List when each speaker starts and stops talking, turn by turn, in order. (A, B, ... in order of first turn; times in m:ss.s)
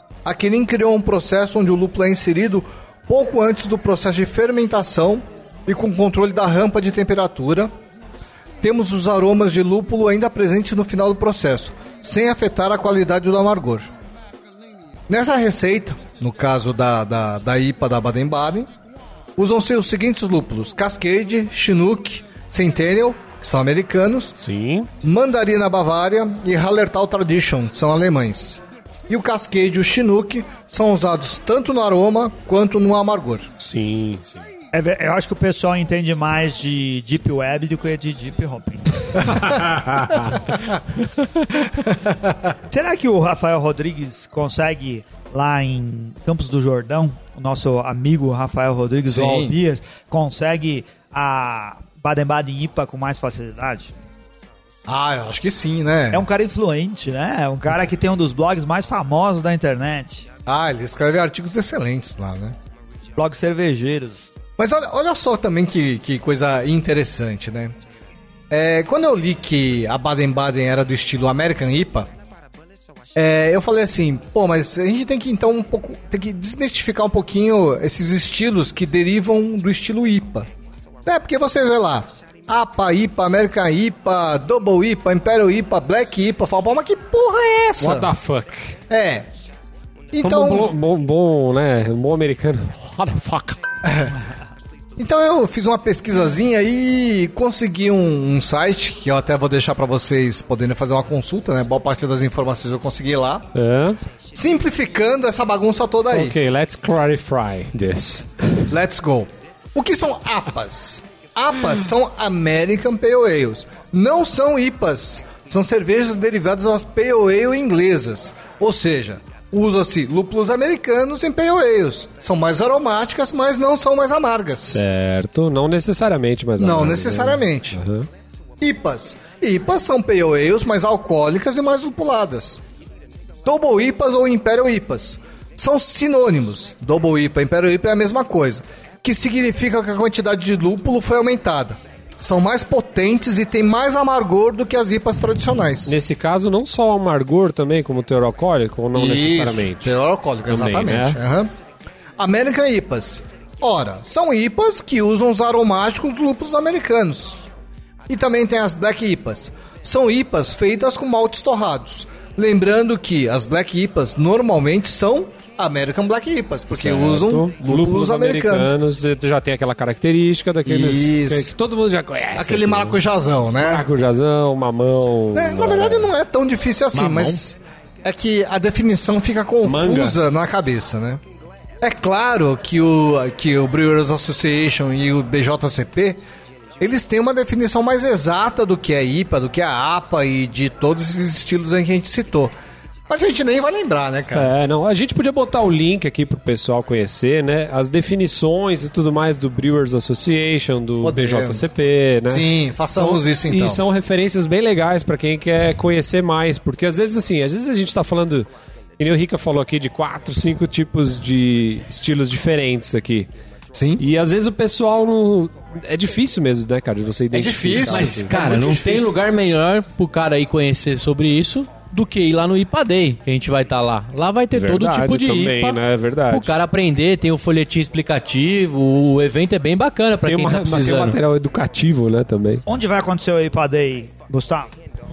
0:00.2-0:07.7 A
0:08.6-0:13.9 A
0:15.1-0:18.7 A
0:19.4-0:24.4 A
0:24.4-0:24.9 B
0:25.0-0:33.5 A
0:33.6-0:34.4 B
0:34.7-0:39.3 C
0:39.4-0:41.4 B
0:42.0-0:42.3 A
0:42.7-0:53.9 C
0:49.1-0:49.6 A
0:54.9-0:56.2 A
0:56.1-1:00.2 C
1:00.4-1:02.5 A
1:03.2-1:04.2 C
1:04.6-1:07.7 A
1:08.5-1:12.1 A
1:13.1-1:20.5 A
1:21.0-1:28.1 A
1:27.8-1:28.8 B
1:28.9-1:29.3 A
1:30.1-1:30.7 A
1:30.2-1:33.6 B
1:33.8-1:34.2 A
1:35.0-1:43.4 A
1:43.5-1:44.0 B
1:44.3-1:46.4 A
1:46.1-1:48.7 B
1:48.7-2:04.8 A
2:04.7-2:08.1 B
2:06.6-2:07.8 A
2:08.6-2:12.6 A
2:13.4-2:25.9 A
2:25.9-2:29.9 B
2:28.9-2:31.5 A
2:30.5-2:31.2 B
2:32.2-2:37.4 A
2:38.1-2:48.7 A
2:46.7-2:53.0 B
2:50.6-2:51.5 A
2:52.3-2:53.8 A
2:53.6-2:56.1 B
2:55.3-3:01.2 A
2:56.9-2:57.4 D
2:59.6-3:00.2 B
3:01.8-3:06.2 A
3:06.8-3:12.5 A
3:13.1-3:14.5 A
3:14.3-3:28.5 B
3:21.0-3:21.6 A
3:22.3-3:23.8 A
3:29.0-3:33.3 B
3:33.7-3:34.0 A
3:34.0-3:38.3 B
3:37.3-3:39.1 A
3:37.8-3:45.8 D
3:44.5-3:46.5 B
3:46.3-3:51.2 D
3:50.2-3:52.6 B
3:52.7-3:54.7 C